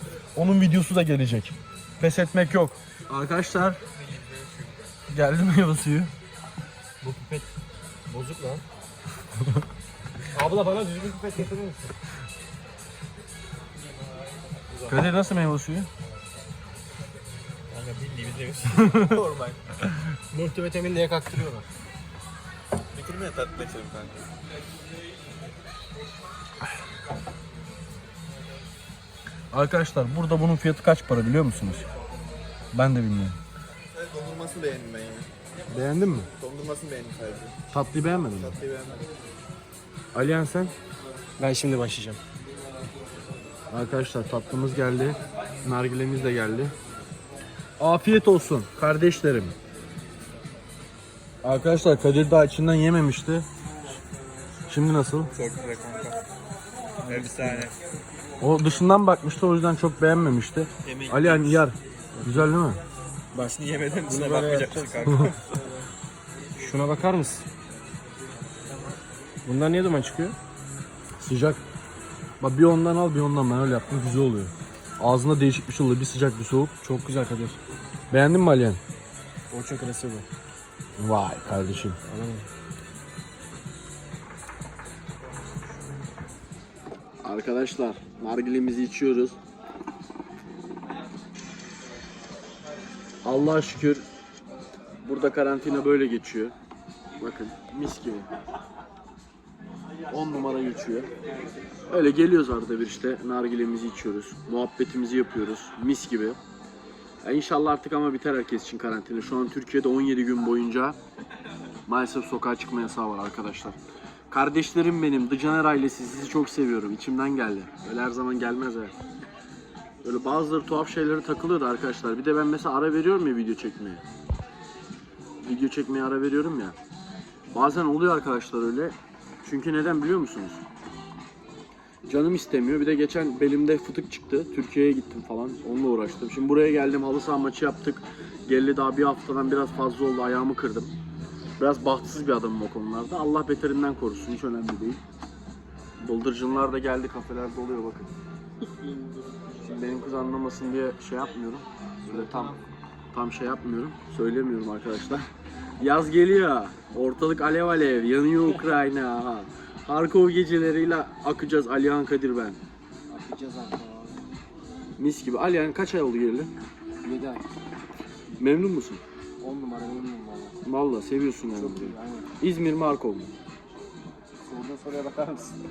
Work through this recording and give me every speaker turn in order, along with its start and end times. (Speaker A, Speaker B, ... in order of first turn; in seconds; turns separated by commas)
Speaker A: 0.3-3.8, Speaker B: 4.0-4.8, Speaker A: 5.1-6.1, Speaker C: 7.0-7.5, Speaker C: 8.1-8.6, Speaker C: 10.3-11.9, Speaker A: 14.9-15.9, Speaker B: 17.7-19.6, Speaker C: 20.3-21.7, Speaker B: 22.9-24.3, Speaker A: 29.5-31.9, Speaker A: 32.7-33.4, Speaker B: 33.9-35.3, Speaker A: 35.7-36.3, Speaker B: 36.3-37.6, Speaker A: 37.7-38.5, Speaker B: 38.3-39.1, Speaker A: 40.1-40.7, Speaker C: 41.4-42.2, Speaker A: 43.7-46.7, Speaker A: 47.8-49.5, Speaker A: 51.4-53.5, Speaker A: 54.7-55.3, Speaker B: 55.3-56.2, Speaker C: 57.0-57.7, Speaker B: 57.0-57.8, Speaker A: 58.4-62.8, Speaker B: 60.8-61.7, Speaker C: 62.1-62.5, Speaker B: 63.3-65.6, Speaker C: 64.1-65.3, Speaker C: 66.6-67.5, Speaker C: 69.4-70.4, Speaker A: 71.2-71.6, Speaker A: 72.4-76.8, Speaker C: 76.8-77.6, Speaker A: 78.1-78.8, Speaker C: 79.5-80.2, Speaker A: 81.0-82.0, Speaker C: 82.0-82.5, Speaker A: 87.2-89.4, Speaker A: 93.2-94.0, Speaker A: 95.0-96.5, Speaker A: 97.2-98.3, Speaker A: 100.1-101.1, Speaker A: 101.9-106.4, Speaker A: 107.2-111.0, Speaker A: 111.9-113.8, Speaker A: 114.3-118.9, Speaker A: 120.0-124.0, Speaker A: 125.4-126.8, Speaker A: 127.5-130.6, Speaker A: 132.1-140.9, Speaker A: 141.6-145.0, Speaker A: 146.0-148.1, Speaker B: 148.6-149.9, Speaker A: 149.6-152.6, Speaker B: 152.0-152.6, Speaker A: 153.1-155.3, Speaker A: 155.8-162.6, Speaker C: 163.1-164.2, Speaker A: 165.0-166.5, Speaker C: 167.0-167.4, Speaker A: 168.4-169.0, Speaker C: 169.4-170.6, Speaker A: 170.6-173.3, Speaker C: 171.5-172.3, Speaker C: 174.4-175.6